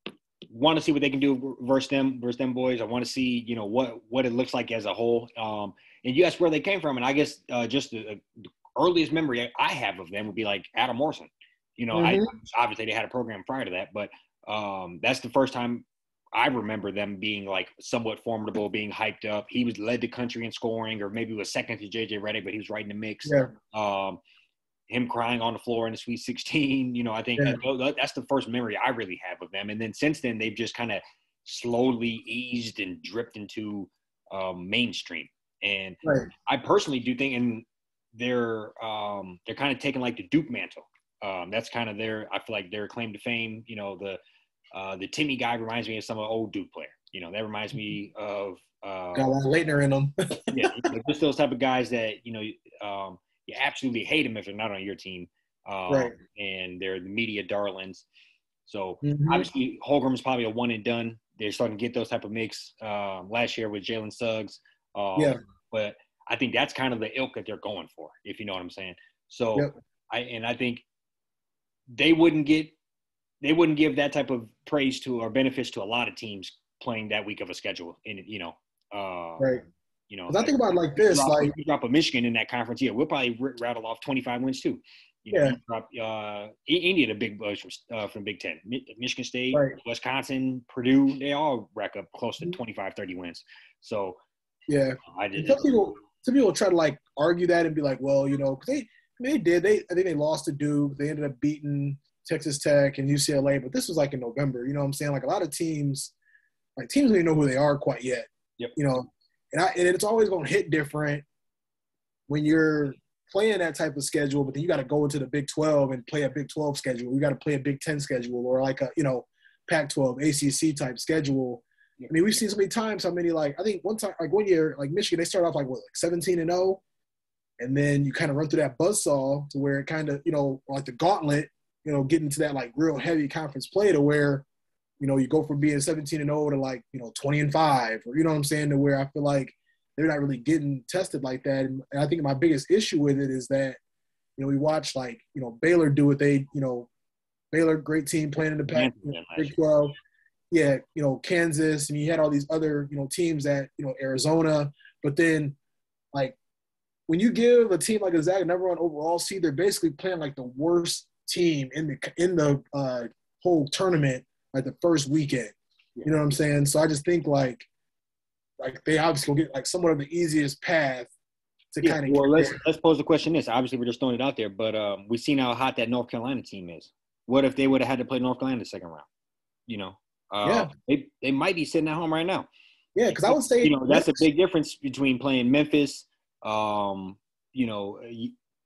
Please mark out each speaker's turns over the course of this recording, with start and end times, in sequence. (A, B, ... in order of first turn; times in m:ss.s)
0:00.5-0:08.2 A
0:08.8-0:24.2 A
0:11.9-0:12.3 B
0:23.2-0:23.5 B
0:24.9-0:44.2 A
0:36.0-0:36.3 B
0:44.7-0:49.4 A
0:49.2-0:50.7 B
0:50.5-0:58.1 A
0:55.9-0:56.2 B
0:58.7-1:10.8 A
0:59.0-0:59.5 B
1:12.0-1:12.8 A
1:13.4-1:34.2 A
1:20.3-1:21.5 B
1:34.7-1:46.1 B
1:35.1-1:36.0 A
1:46.8-1:51.2 B
1:52.3-2:06.8 B
2:07.6-2:14.5 B
2:15.0-2:23.8 B
2:24.4-2:26.9 B
2:27.5-2:29.9 B
2:28.7-2:29.6 A
2:30.5-2:35.6 B
2:37.1-2:47.7 B
2:48.6-2:51.1 B
2:51.7-2:52.6 B
2:51.8-2:59.1 A
2:59.7-3:02.5 A
3:00.4-3:00.7 B
3:03.0-3:04.2 B
3:03.1-3:08.3 A